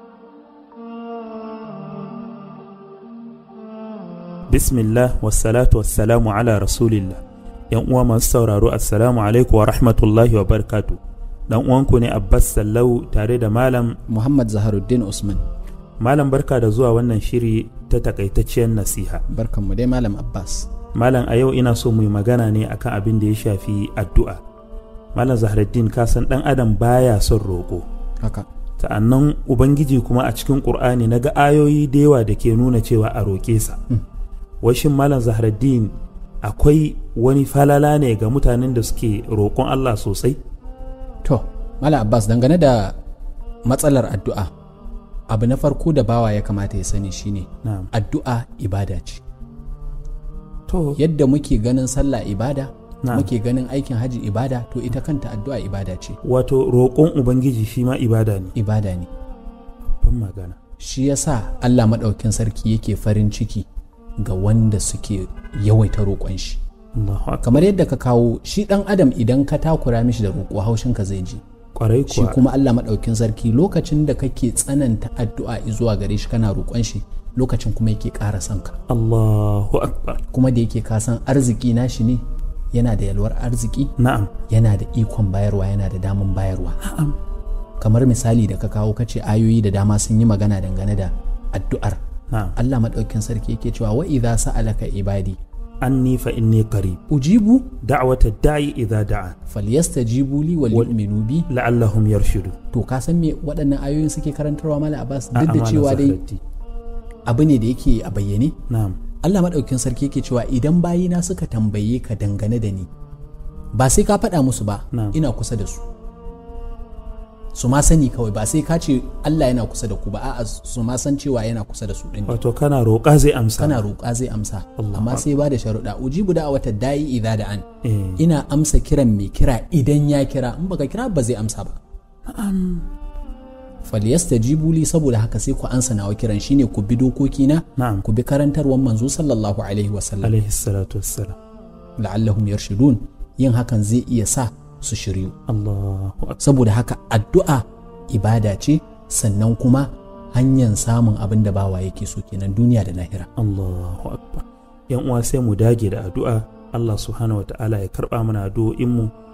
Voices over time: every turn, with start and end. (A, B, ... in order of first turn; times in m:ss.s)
0:04.5-0:11.0 A
0:11.5-0:14.0 A
0:14.1-0:15.4 B
0:16.0-0:19.2 A
0:19.3-0:20.7 B
0:20.9-0:24.4 A
0:25.1-0:27.8 A
0:28.2-0:28.4 B
0:28.8-0:33.8 A
0:34.6-0:40.4 A
0:41.2-0:42.9 B
0:43.6-0:44.5 B
0:45.3-0:49.2 B
0:47.6-0:47.9 A
0:50.7-0:51.0 A
0:50.9-0:56.2 B
0:53.0-0:53.3 A
0:56.2-0:58.5 A
0:58.5-0:59.1 B
1:00.0-1:00.6 A
1:00.8-1:03.6 B
1:04.2-1:06.6 B
1:06.9-1:07.6 A
1:07.4-1:11.4 B
1:11.7-1:12.4 A
1:12.1-1:18.8 B
1:18.9-1:20.2 A
1:20.3-1:23.9 B
1:24.0-1:24.3 A
1:24.5-1:26.8 B
1:26.8-1:27.2 A
1:27.8-1:32.0 B
1:32.3-1:32.6 A
1:32.6-1:35.4 B
1:35.8-1:37.0 A
1:37.1-1:37.7 B
1:37.8-1:39.3 A
1:39.5-1:41.5 B
1:41.5-1:42.6 A
1:42.7-1:46.2 B
1:45.3-1:46.4 A
1:47.2-1:48.6 B
1:48.7-1:49.0 A
1:49.2-1:52.9 B
1:53.7-1:55.8 B
1:54.9-1:55.2 A
1:57.5-2:02.4 B
2:02.3-2:03.8 A
2:03.6-2:07.6 B
2:04.8-2:05.2 A
2:07.8-2:08.2 A
2:08.2-2:11.8 B
2:12.3-2:12.9 A
2:13.8-2:20.3 B
2:17.8-2:18.0 A
2:20.2-2:21.4 A
2:22.0-2:25.4 B
2:25.5-2:26.4 A
2:26.4-2:33.3 B
2:33.4-2:39.1 A